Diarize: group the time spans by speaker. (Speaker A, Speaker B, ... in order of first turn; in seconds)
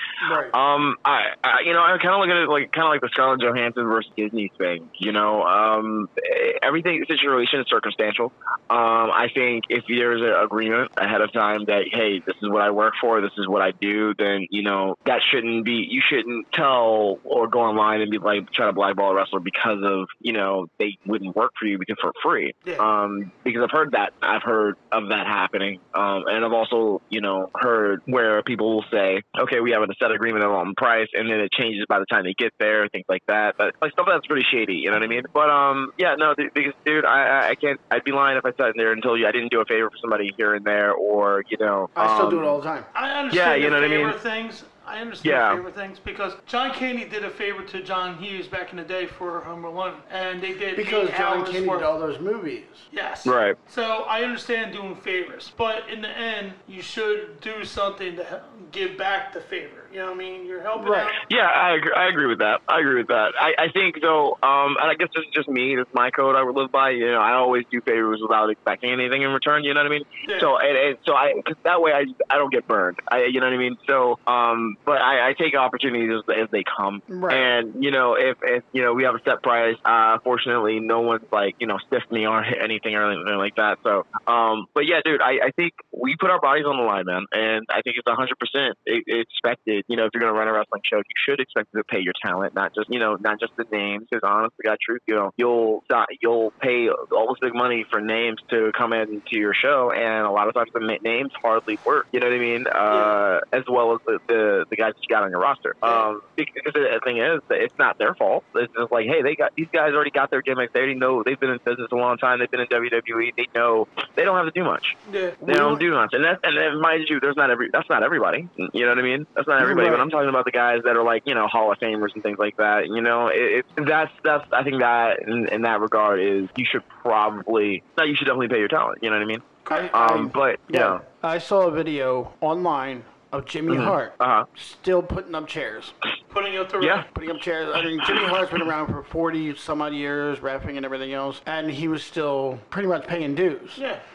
Speaker A: 0.2-0.5, 42.0-42.9, 50.7-52.8, 60.8-61.1, 77.1-77.5, 115.4-115.8, 119.6-120.1, 129.7-135.9, 137.1-143.8
Speaker B: 0.5-42.5, 43.3-44.2, 45.2-45.6, 53.2-53.6, 61.3-131.0, 133.7-134.5, 136.8-137.1, 138.0-138.3
Speaker C: 42.9-51.9, 52.9-61.2, 70.2-70.5, 102.9-103.2, 115.1-115.4, 129.7-129.9, 136.3-137.1, 143.8-144.0